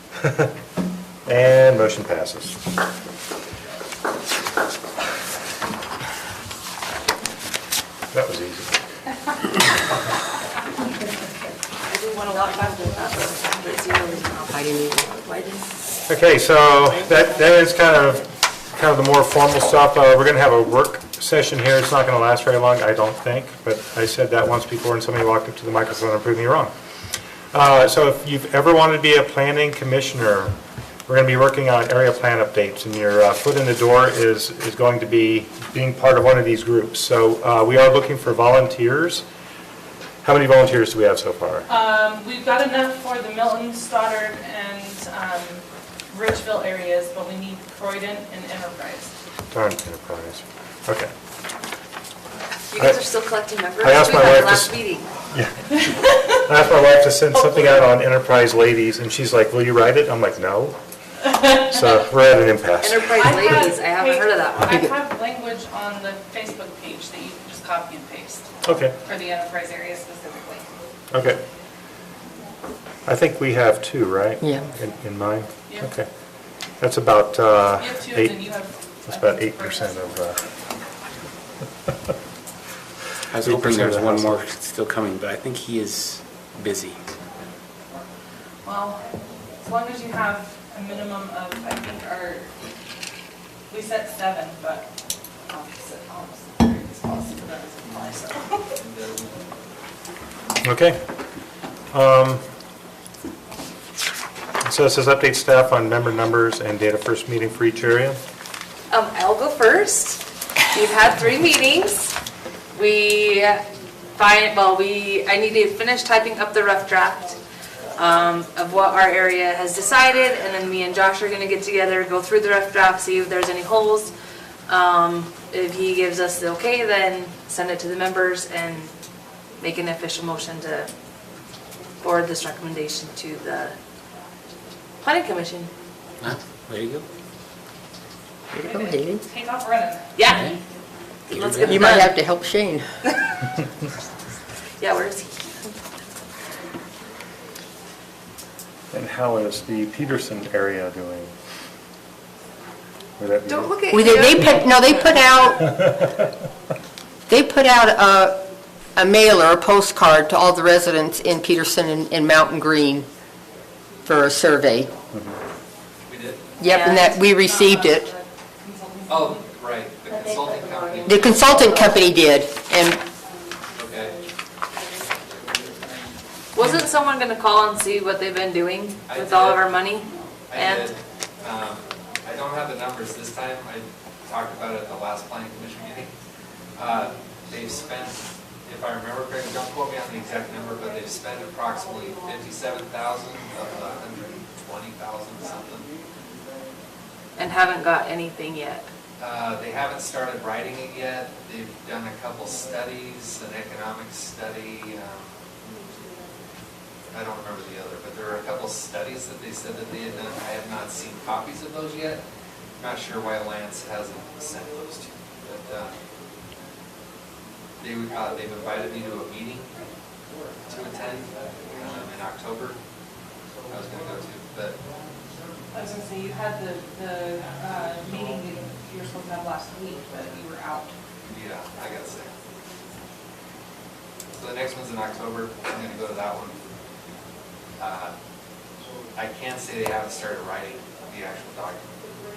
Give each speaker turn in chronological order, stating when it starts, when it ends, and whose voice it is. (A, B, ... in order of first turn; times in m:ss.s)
0:00.2-0:00.5 A
0:01.2-0:02.6 A
0:08.1-0:08.7 A
0:11.9-0:15.8 B
0:14.5-0:15.0 C
0:16.1-0:26.7 A
0:27.5-0:30.5 A
0:31.1-0:39.2 A
0:40.2-0:41.7 A
0:41.7-0:49.1 D
0:49.5-0:51.1 A
0:52.7-0:55.1 B
0:53.8-0:54.7 A
0:55.3-1:00.8 A
1:01.4-1:03.6 A
1:02.8-1:04.9 B
1:03.1-1:08.4 D
1:08.6-1:08.9 A
1:09.0-1:10.6 D
1:11.1-1:11.4 A
1:13.0-1:16.1 A
1:16.8-1:18.4 A
1:17.8-1:20.4 D
1:19.1-1:20.4 A
1:23.3-1:27.0 E
1:23.4-1:24.4 A
1:28.6-1:29.0 D
1:29.6-1:32.5 D
1:33.7-1:34.9 D
1:35.5-1:38.8 D
1:38.8-1:39.4 F
1:40.6-1:41.0 A
1:41.9-1:42.4 A
1:44.6-1:48.2 A
1:48.9-1:52.2 B
1:52.7-1:57.4 B
1:57.9-2:04.1 B
2:04.7-2:08.9 B
2:09.6-2:10.9 B
2:12.0-2:13.8 B
2:15.0-2:15.7 B
2:16.2-2:17.1 E
2:18.5-2:19.2 C
2:18.6-2:20.1 D
2:20.2-2:20.5 B
2:20.2-2:20.6 E
2:21.3-2:22.1 B
2:21.3-2:21.8 E
2:21.6-2:22.8 C
2:24.8-2:25.8 B
2:28.9-2:31.3 A
2:33.2-2:33.7 A
2:33.5-2:35.0 B
2:33.9-2:36.0 C
2:37.3-2:38.4 C
2:39.0-2:43.1 C
2:44.0-2:44.9 C
2:46.1-2:46.5 F
2:46.6-2:48.1 C
2:46.6-2:47.1 B
2:46.9-2:49.6 D
2:49.1-2:51.8 F
2:51.1-2:53.0 C
2:53.7-2:54.2 F
2:56.5-3:00.9 B
2:59.1-2:59.7 F
3:00.5-3:06.1 F
3:06.8-3:15.9 F
3:17.4-3:18.9 B
3:19.2-3:25.4 F
3:27.1-3:32.2 F
3:32.8-3:35.9 F
3:37.8-3:39.7 F
3:40.7-3:42.8 F
3:43.7-3:44.8 F
3:45.7-3:50.9 D
3:51.2-3:52.3 F
3:54.3-3:56.6 F
3:57.8-3:58.1 F
3:59.1-4:02.0 F